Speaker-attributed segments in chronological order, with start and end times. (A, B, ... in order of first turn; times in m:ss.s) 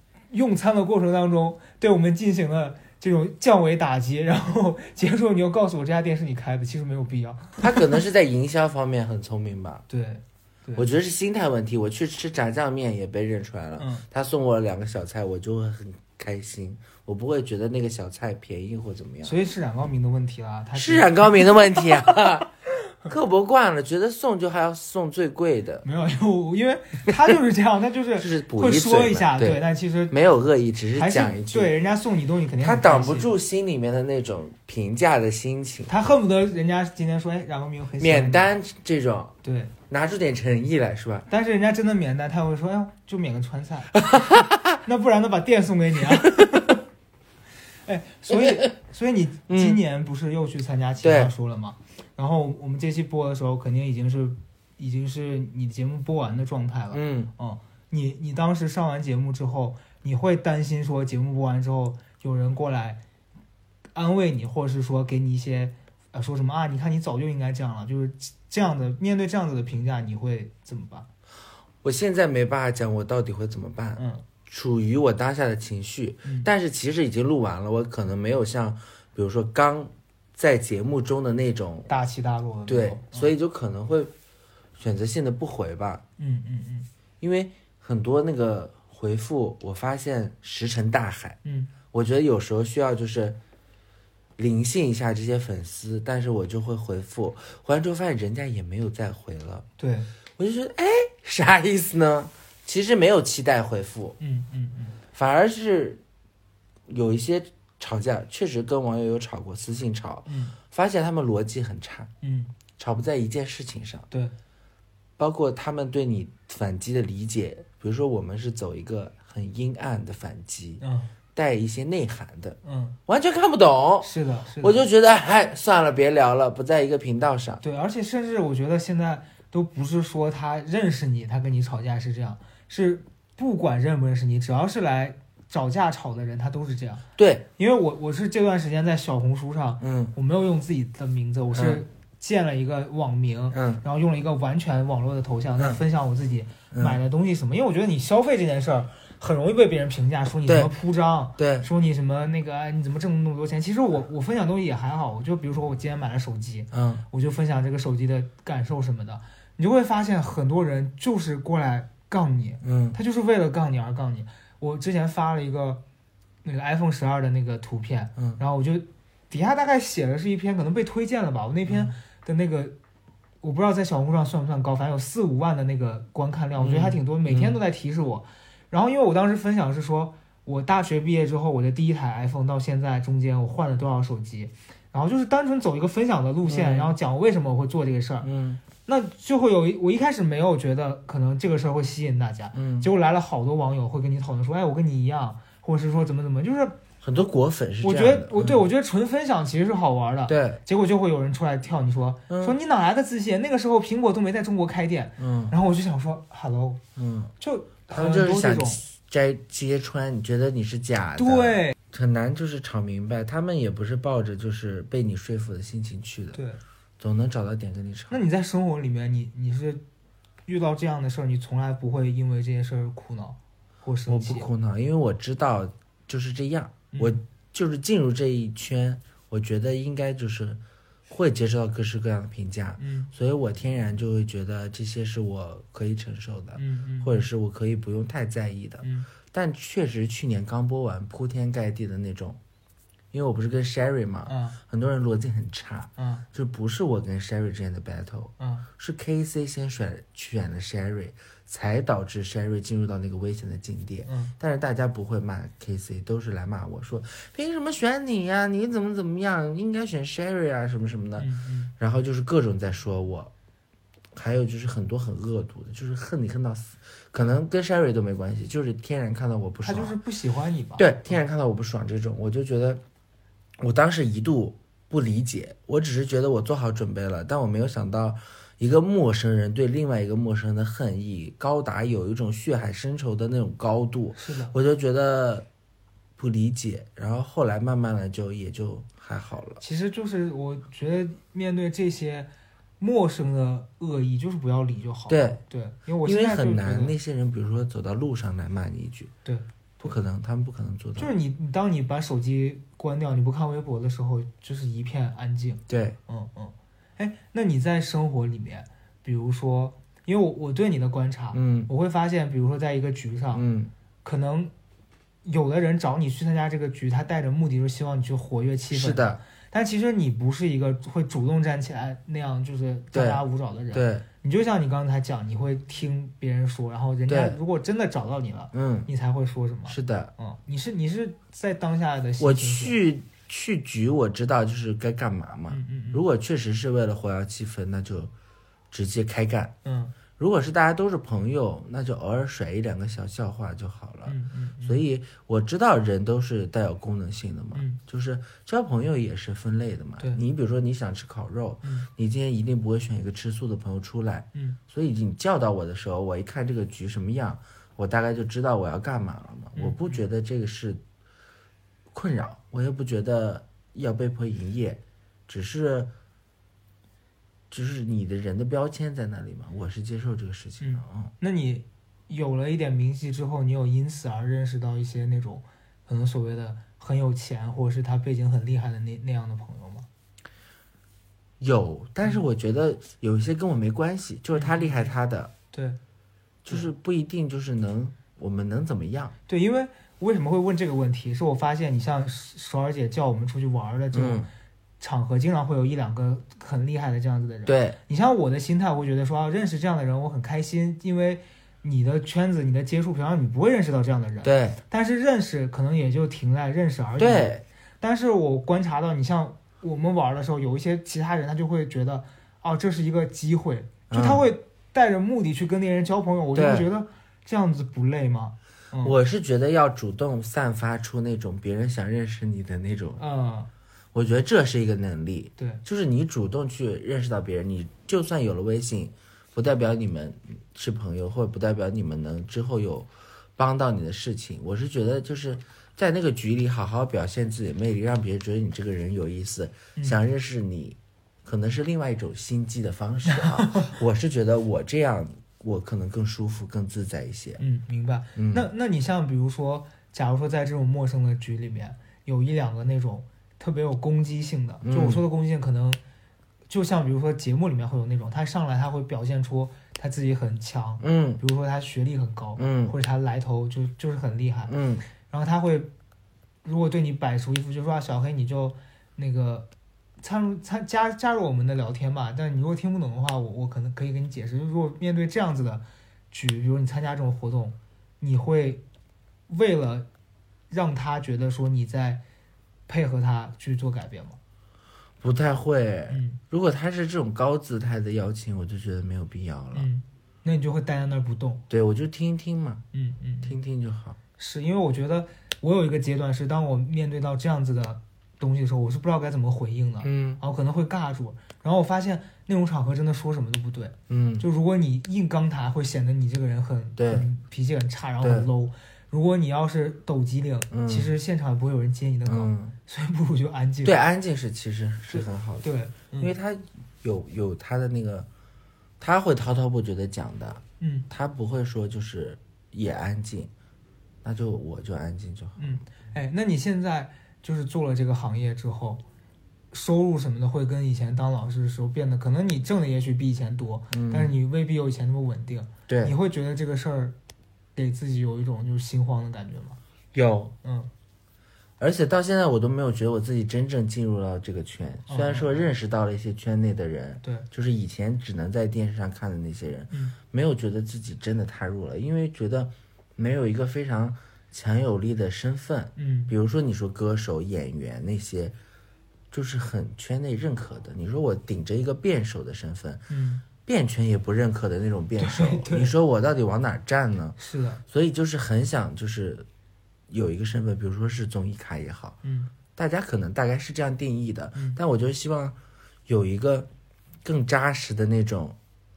0:00.3-0:08.0 A
0:07.6-0:09.8 B
0:09.9-0:10.9 A
0:10.8-0:19.4 B
0:13.8-0:14.0 A
0:19.2-0:22.3 A
0:20.7-0:22.5 B
0:23.1-0:25.9 B
0:25.8-0:30.2 A
0:28.2-0:31.7 B
0:31.0-0:33.3 A
0:32.6-0:35.9 B
0:35.9-0:38.6 A
0:38.0-0:39.3 B
0:39.4-0:39.7 A
0:39.9-0:41.3 B
0:41.3-0:44.0 A
0:44.0-0:44.8 B
0:44.8-0:46.8 A
0:47.9-1:03.0 A
0:48.3-0:48.7 B
0:49.5-0:49.8 B
0:51.0-0:51.3 B
0:56.9-0:57.3 B
1:03.9-1:11.1 A
1:11.8-1:21.9 B
1:14.0-1:14.2 A
1:16.2-1:16.5 A
1:21.9-1:23.3 A
1:22.7-1:24.1 B
1:24.8-1:26.0 B
1:26.2-1:26.9 A
1:27.2-1:31.4 B
1:31.4-1:31.7 A
1:31.9-1:33.4 B
1:34.4-1:39.7 B
1:39.8-1:40.1 A
1:40.4-1:44.2 B
1:44.2-1:45.0 A
1:45.1-1:46.0 B
1:46.9-1:52.1 B
1:50.3-1:50.6 A
1:52.2-1:52.5 A
1:52.8-1:54.1 B
1:55.2-2:00.8 B
2:00.8-2:01.1 A
2:01.3-2:07.6 B
2:02.6-2:03.0 A
2:04.0-2:04.8 A
2:07.6-2:17.1 A
2:17.2-2:17.4 B
2:17.6-2:45.8 A
2:19.8-2:20.1 B
2:21.5-2:21.8 B
2:23.5-2:23.8 B
2:26.7-2:27.0 B
2:31.4-2:31.7 B
2:36.7-2:37.0 B
2:42.6-2:43.0 B
2:46.4-2:52.8 A
2:51.7-2:52.0 B
2:53.4-3:08.3 A
2:56.6-2:57.6 B
3:06.5-3:06.9 B
3:08.2-3:08.6 B
3:08.8-3:16.8 A
3:12.5-3:12.9 B
3:17.0-3:18.6 B
3:17.8-3:26.8 A
3:20.3-3:20.6 B
3:22.3-3:22.6 B
3:25.2-3:25.6 B
3:27.0-3:27.3 B
3:27.4-3:28.8 A
3:27.9-3:36.4 B
3:31.2-3:31.8 A
3:36.3-3:36.6 A
3:37.0-3:38.2 B
3:38.1-3:39.8 A
3:40.5-3:44.5 A
3:44.1-4:02.4 B
3:46.9-3:47.2 A
3:52.8-3:53.1 A
3:56.6-3:57.3 A
3:58.8-3:59.1 A
4:03.1-4:21.3 B
4:04.3-4:04.6 A
4:06.0-4:06.2 A
4:08.4-4:08.7 A
4:14.1-4:14.3 A
4:21.2-4:21.7 A
4:21.8-4:23.3 B
4:24.2-4:30.0 B
4:29.6-4:31.2 A
4:30.8-4:32.8 B
4:33.6-4:45.5 B
4:44.2-4:44.6 A
4:46.2-4:49.6 B
4:49.6-4:56.9 A
4:55.1-4:55.4 B
4:56.0-4:59.1 B
4:59.2-5:00.0 A
4:59.8-5:01.1 B
5:01.0-5:13.5 A
5:05.7-5:06.0 B
5:11.3-5:11.7 B
5:13.3-5:13.7 B
5:14.0-5:14.5 A
5:15.2-5:32.8 A
5:18.7-5:19.2 B
5:22.9-5:24.0 B
5:27.1-5:27.4 B
5:28.5-5:28.9 B
5:29.7-5:30.1 B
5:32.2-5:38.1 B
5:35.5-5:36.0 A
5:38.7-5:39.5 B
5:39.6-5:40.0 A
5:40.2-6:00.8 B
5:44.1-5:44.8 A
5:47.5-5:47.8 A
5:51.6-5:51.9 A
5:59.6-6:00.0 A
6:01.9-6:05.9 B
6:07.5-6:11.1 B
6:10.6-6:19.9 A
6:21.4-6:25.3 B
6:24.3-6:24.9 A
6:25.5-6:25.8 A
6:26.4-6:29.2 B
6:29.3-6:34.3 A
6:33.9-6:34.3 B
6:34.8-6:59.0 A
6:37.5-6:37.8 B
6:44.2-6:44.6 B
6:47.0-6:47.4 B
6:53.9-6:54.2 B
6:56.3-6:56.7 B
6:58.8-7:03.0 B
7:03.0-7:03.5 A
7:03.9-7:27.4 B
7:05.4-7:05.6 A
7:23.1-7:23.7 A
7:27.4-7:35.8 A
7:28.2-7:28.5 B
7:34.6-7:35.0 B
7:36.5-7:44.6 A
7:40.8-7:41.2 B
7:42.4-7:42.8 B
7:44.5-7:44.8 B
7:45.1-7:45.7 A
7:46.4-7:49.5 A
7:50.0-7:58.6 A
7:59.3-7:59.9 A
8:00.5-8:02.0 A
8:02.7-8:04.2 A
8:05.0-8:09.7 B
8:05.9-8:06.2 A
8:09.5-8:11.4 A
8:11.5-8:12.6 B
8:12.7-8:13.4 A
8:13.2-8:14.0 B
8:14.2-8:33.8 A
8:19.8-8:20.2 B
8:23.9-8:24.3 B
8:26.8-8:27.1 B
8:28.0-8:28.3 B
8:30.5-8:30.9 B
8:32.1-8:32.6 B
8:33.6-8:38.1 B
8:34.9-8:36.1 A
8:38.8-8:43.3 B
8:40.6-8:40.9 A
8:44.0-8:45.6 B
8:45.4-8:48.8 A
8:49.5-8:57.0 A
8:53.7-8:54.1 B
8:55.7-8:56.0 B
8:57.6-8:59.6 A
8:59.9-9:00.3 B
9:00.4-9:00.7 A
9:01.6-9:18.4 B
9:04.9-9:05.5 A
9:09.7-9:10.0 A
9:15.8-9:16.1 A
9:19.1-9:22.9 B
9:22.9-9:23.2 A
9:23.4-9:29.3 B
9:25.0-9:25.7 A
9:27.2-9:27.6 A
9:29.9-9:32.0 B
9:32.0-9:32.3 A
9:32.6-9:35.4 B
9:35.9-9:36.5 B
9:37.0-9:38.4 B